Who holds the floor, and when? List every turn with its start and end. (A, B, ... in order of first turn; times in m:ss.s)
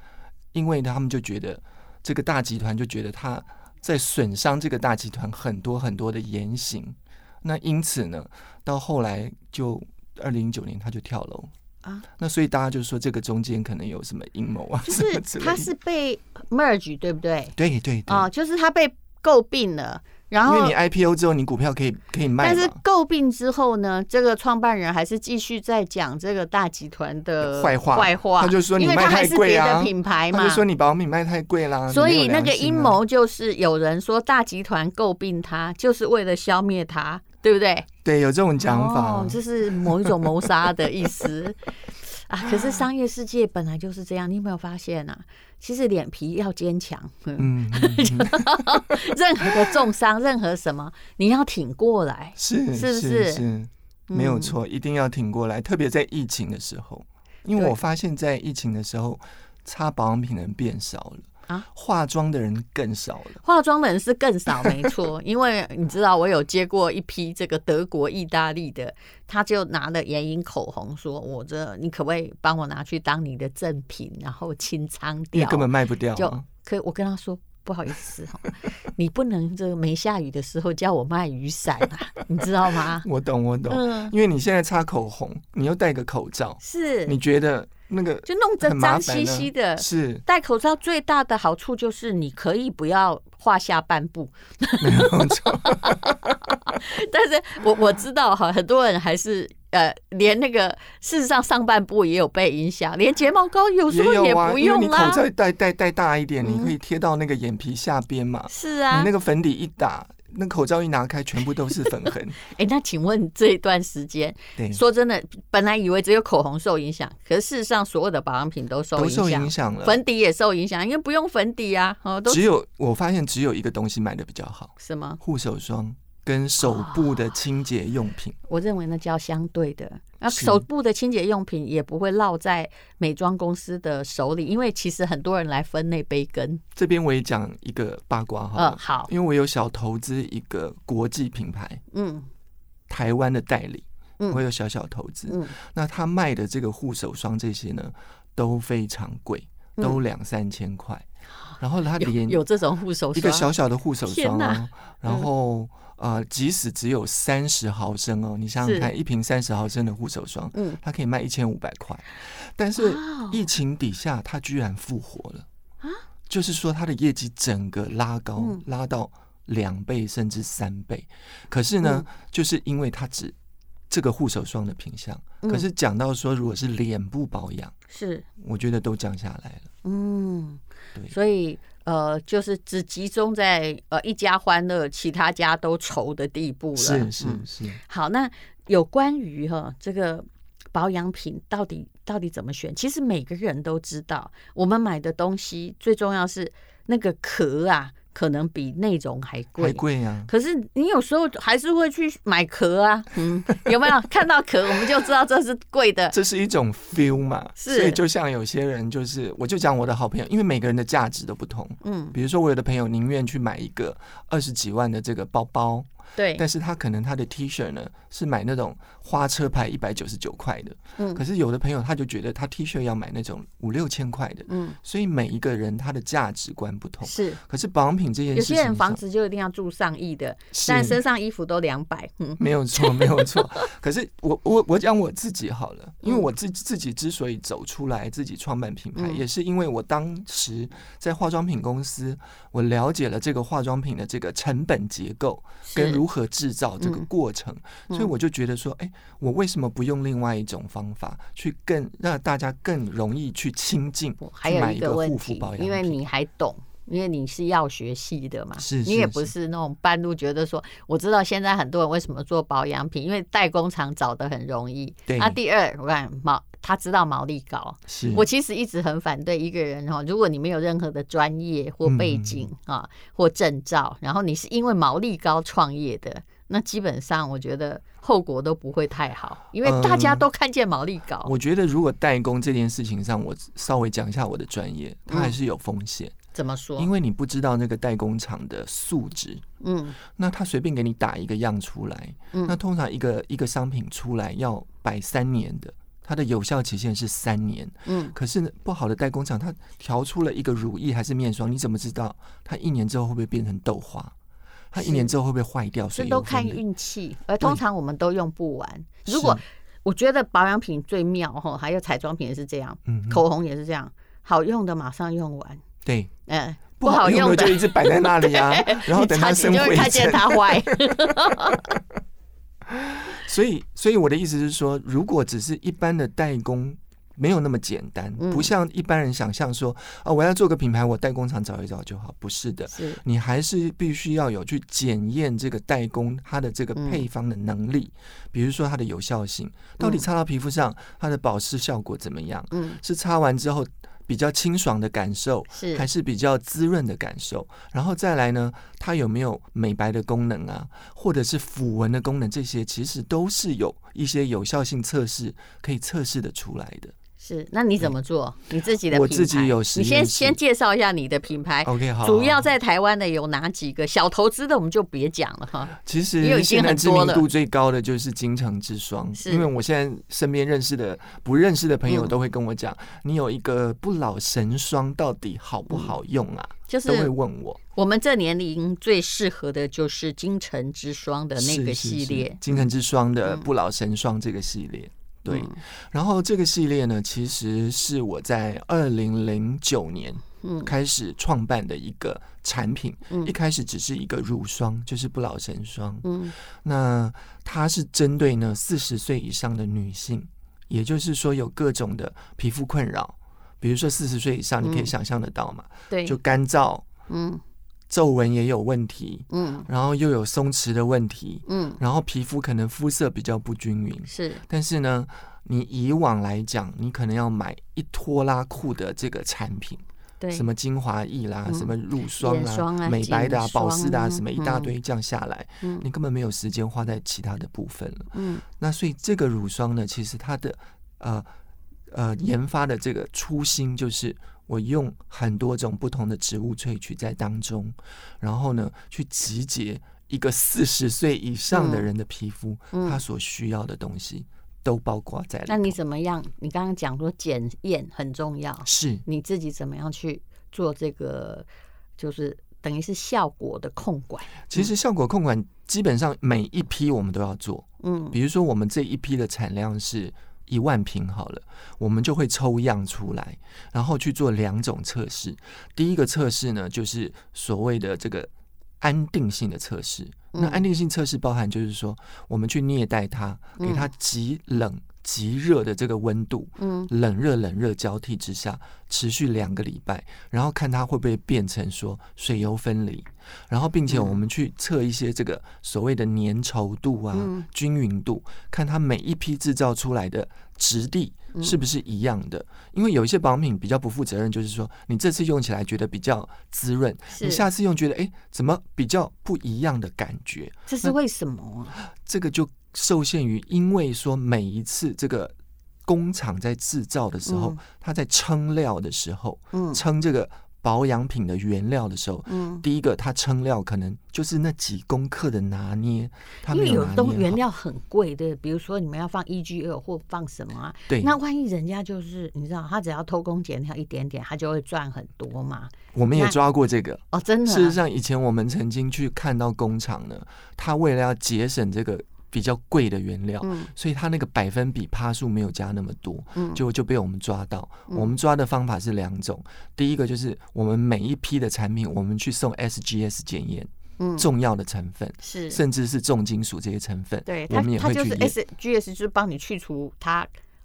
0:00.5-0:11.5 A
0:12.2-0:15.7 A
0:14.8-0:17.6 B
0:17.6-0:18.3 A
0:18.1-0:20.7 B
0:20.4-0:22.8 A
0:22.4-0:30.6 B
0:27.4-0:33.0 A
0:31.9-0:37.9 B
0:38.0-0:40.7 A
0:38.6-0:53.4 B
0:42.4-0:42.7 A
0:47.4-0:49.8 A
0:52.4-1:03.4 A
0:54.1-0:54.5 B
1:03.4-1:23.0 B
1:04.6-1:04.9 A
1:15.3-1:16.4 A
1:22.7-1:30.2 A
1:23.7-1:24.1 B
1:26.6-1:27.2 B
1:28.2-1:45.2 B
1:34.8-1:36.8 A
1:43.9-1:52.4 A
1:46.4-1:46.7 B
1:48.5-1:49.1 B
1:52.4-2:02.4 B
1:54.6-1:54.8 A
1:58.9-2:00.0 A
2:02.3-2:08.4 A
2:04.8-2:05.2 B
2:06.6-2:07.2 B
2:08.5-2:16.6 B
2:10.3-2:10.6 A
2:16.7-2:21.8 A
2:18.5-2:19.1 B
2:21.9-2:22.3 B
2:22.9-2:31.0 A
2:25.3-2:25.5 B
2:31.3-2:33.5 B
2:31.6-2:32.4 A
2:33.1-2:45.4 A
2:34.0-2:35.3 B
2:38.6-2:38.9 B
2:40.5-2:40.8 B
2:42.8-2:43.4 B
2:46.3-2:53.3 A
2:53.9-2:57.7 A
2:55.4-2:55.7 B
2:57.9-2:58.2 B
2:58.4-2:59.7 A
2:59.8-3:26.1 B
3:06.8-3:07.8 A
3:19.6-3:20.3 A
3:26.1-3:49.0 A
3:27.6-3:28.0 B
3:31.8-3:32.1 B
3:36.2-3:36.4 B
3:41.0-3:41.2 B
3:44.5-3:44.8 B
3:47.0-3:47.4 B
3:48.3-3:53.7 B
3:50.5-3:51.0 A
3:52.4-4:16.0 A
3:59.0-3:59.2 B
4:05.6-4:06.0 B
4:06.8-4:07.0 B
4:14.2-4:41.3 B
4:18.6-4:19.3 A
4:25.1-4:25.4 A
4:27.9-4:28.2 A
4:31.8-4:32.5 A
4:39.6-4:40.2 A
4:41.2-4:46.2 A
4:45.1-4:45.3 B
4:46.3-4:46.9 B
4:46.8-4:49.4 A
4:49.6-4:50.0 B
4:50.0-5:04.1 A
4:52.3-4:52.6 B
4:57.8-4:58.2 B
5:04.7-5:06.6 A
5:04.8-5:05.1 B
5:05.9-5:15.6 B
5:09.1-5:09.4 A
5:12.9-5:13.2 A
5:15.8-5:16.1 A
5:16.3-5:21.6 B
5:16.8-5:21.8 A
5:22.6-5:56.9 A
5:28.2-5:28.5 B
5:32.7-5:33.0 B
5:36.8-5:37.0 B
5:39.8-5:40.0 B
5:42.5-5:42.8 B
5:45.5-5:45.9 B
5:57.2-6:07.2 B
5:58.9-6:00.4 A
6:01.6-6:02.4 A
6:05.8-6:17.6 A
6:09.2-6:09.5 B
6:11.9-6:12.1 B
6:16.7-6:17.1 B
6:17.7-6:22.6 B
6:21.4-6:46.8 A
6:25.3-6:25.6 B
6:30.4-6:30.7 B
6:33.1-6:33.3 B
6:36.0-6:36.3 B
6:44.6-6:44.9 B
6:45.9-6:46.2 B
6:47.1-6:47.4 B
6:47.9-7:11.3 A
6:49.3-6:49.7 B
6:51.5-6:51.8 B
6:54.1-6:54.4 B
7:00.2-7:00.5 B
7:01.5-7:04.7 B
7:05.6-7:05.9 B
7:08.1-7:08.4 B
7:11.9-7:25.8 A
7:21.5-7:21.9 B
7:22.7-7:23.0 B
7:25.5-7:31.5 B
7:28.6-7:29.0 A
7:32.0-7:34.7 B
7:34.5-8:20.9 A
7:37.8-7:38.2 B
7:50.3-7:50.6 B
7:53.6-7:53.9 B
7:56.6-7:56.9 B
8:03.9-8:04.2 B
8:07.1-8:07.5 B
8:11.3-8:11.6 B
8:17.1-8:17.4 B
8:20.7-8:21.8 B
8:21.9-8:37.4 A
8:27.2-8:27.6 B
8:29.5-8:29.8 B
8:32.3-8:32.6 B
8:36.5-8:46.3 B
8:40.9-8:41.2 A
8:45.9-9:08.4 A
8:47.1-8:47.8 B
8:53.4-8:53.7 B
8:56.4-8:56.6 B
9:04.0-9:04.3 B
9:05.2-9:05.6 B
9:07.2-9:10.3 B